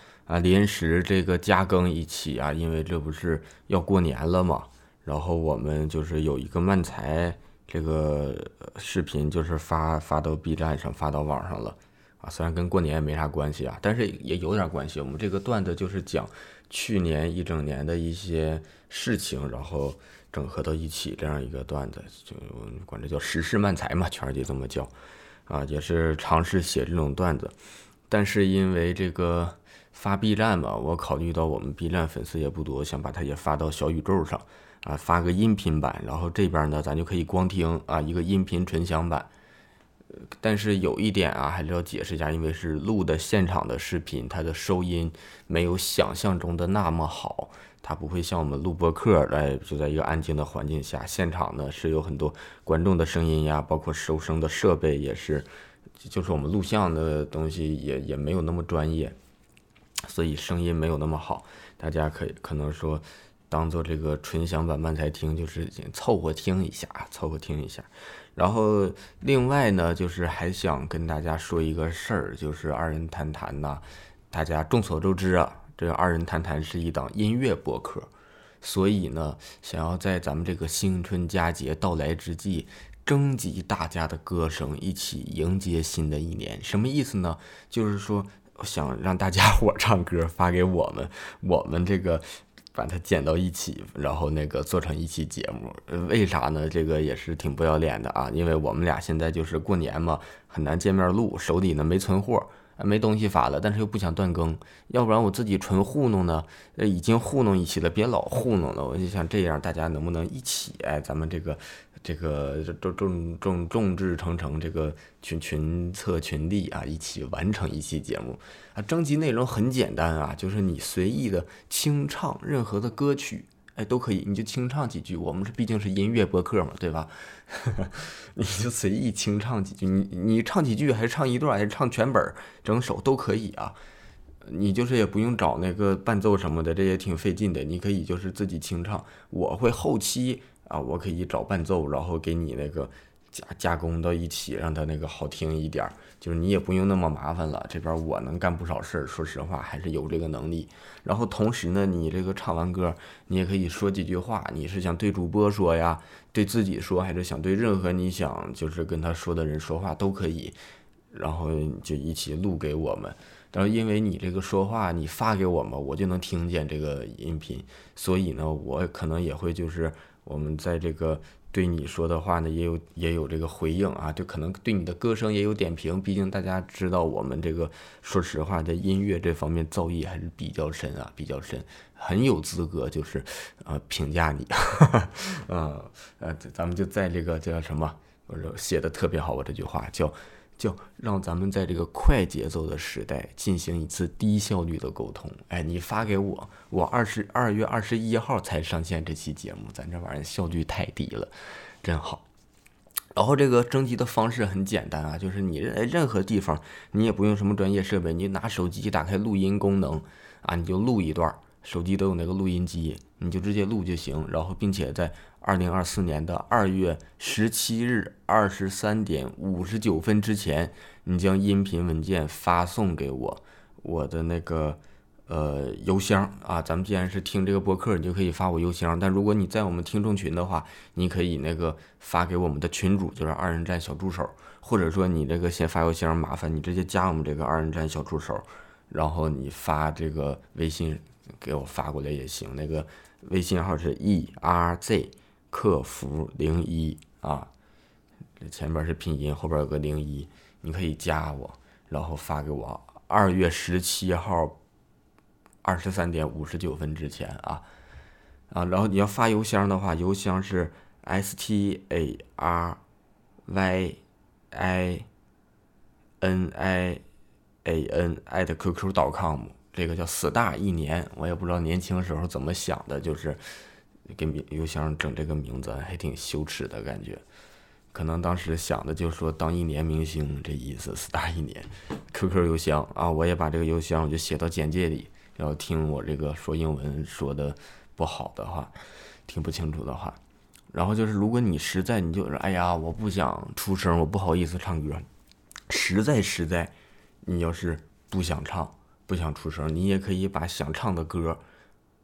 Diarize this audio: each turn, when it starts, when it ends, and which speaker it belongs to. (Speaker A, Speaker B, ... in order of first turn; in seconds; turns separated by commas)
Speaker A: 0.3-24.9, Speaker A: 25.5-27.5, Speaker A: 28.1-39.3, Speaker A: 40.4-55.5, Speaker A: 56.0-59.1, Speaker A: 60.0-78.1, Speaker A: 78.6-133.8, Speaker A: 134.4-160.6, Speaker A: 161.1-202.2, Speaker A: 203.1-247.5, Speaker A: 248.4-254.6, Speaker A: 255.6-257.6, Speaker A: 258.5-262.8, Speaker A: 263.4-264.0, Speaker A: 264.5-265.1, Speaker A: 266.2-267.0, Speaker A: 267.6-273.4, Speaker A: 274.1-277.2, Speaker A: 277.9-288.7, Speaker A: 289.3-290.2, Speaker A: 290.7-295.1, Speaker A: 295.7-301.4